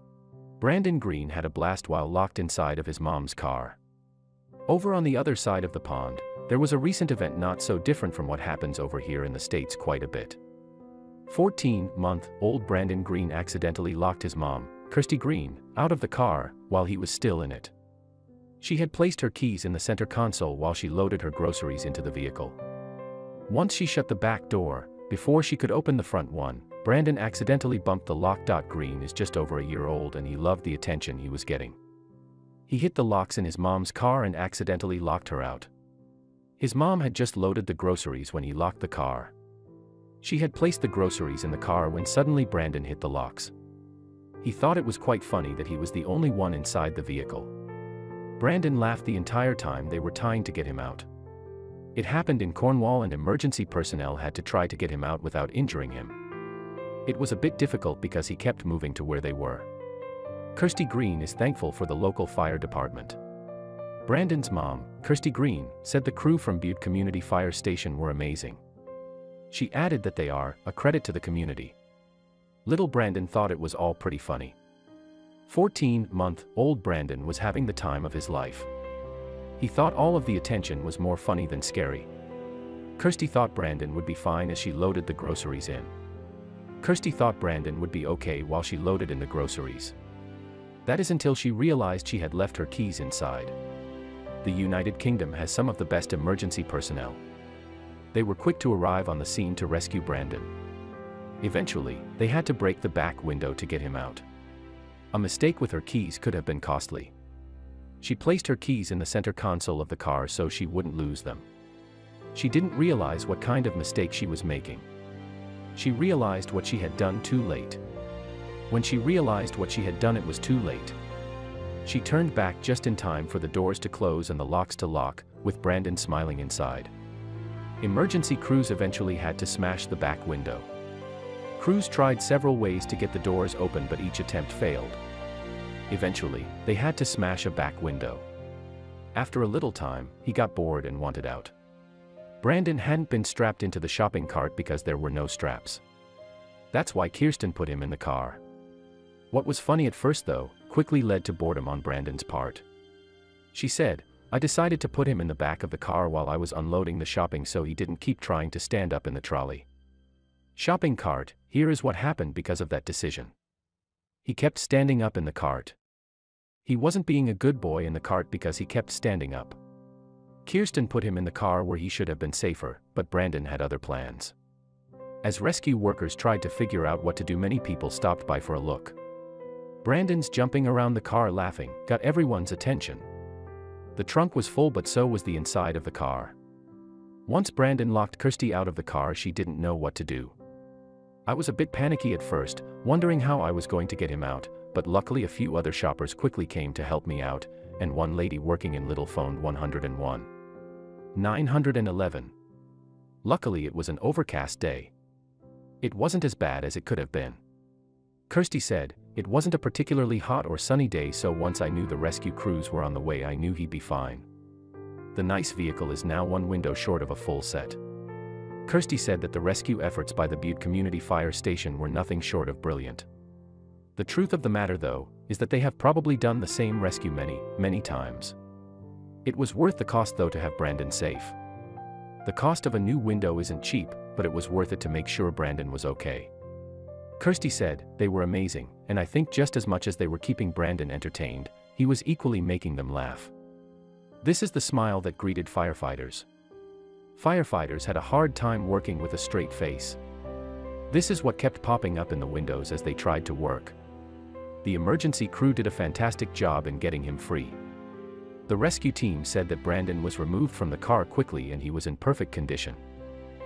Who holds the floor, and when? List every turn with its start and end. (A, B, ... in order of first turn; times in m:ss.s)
0:00.6-0:03.8 A
0:04.7-0:10.4 A
0:11.3-0:17.7 A
0:18.6-0:22.6 A
0:23.5-0:31.8 A
0:32.7-0:35.7 A
0:36.6-0:39.3 A
0:40.2-0:43.5 A
0:44.4-0:47.5 A
0:48.4-0:51.1 A
0:52.0-0:56.2 A
0:57.1-0:59.7 A
1:00.6-1:03.2 A
1:04.0-1:08.6 A
1:09.5-1:11.8 A
1:12.6-1:14.6 A
1:15.5-1:18.7 A
1:19.6-1:22.1 A
1:23.0-1:25.9 A
1:26.8-1:30.0 A
1:30.8-1:33.6 A
1:34.4-1:37.2 A
1:38.1-1:40.5 A
1:41.4-1:44.2 A
1:45.1-1:47.1 A
1:48.0-1:51.5 A
1:52.3-1:54.9 A
1:55.8-1:57.8 A
1:58.7-2:01.0 A
2:01.8-2:06.9 A
2:07.8-2:10.7 A
2:11.6-2:15.0 A
2:15.9-2:18.2 A
2:19.2-2:21.5 A
2:22.4-2:25.8 A
2:26.7-2:28.4 A
2:29.3-2:32.6 A
2:33.5-2:39.7 A
2:40.6-2:43.3 A
2:44.2-2:45.8 A
2:46.6-2:49.6 A
2:50.4-2:54.3 A
2:55.2-2:59.0 A
2:59.8-3:03.1 A
3:04.0-3:06.4 A
3:07.3-3:10.3 A
3:11.3-3:20.3 A
3:21.1-3:22.3 A
3:23.2-3:24.9 A
3:25.8-3:27.4 A
3:28.3-3:34.3 A
3:35.1-3:37.8 A
3:38.7-3:43.1 A
3:44.0-3:48.4 A
3:49.2-3:51.4 A
3:52.2-3:56.3 A
3:57.2-4:03.3 A
4:04.2-4:06.3 A
4:07.2-4:10.0 A
4:10.9-4:13.8 A
4:14.6-4:17.6 A
4:18.5-4:22.8 A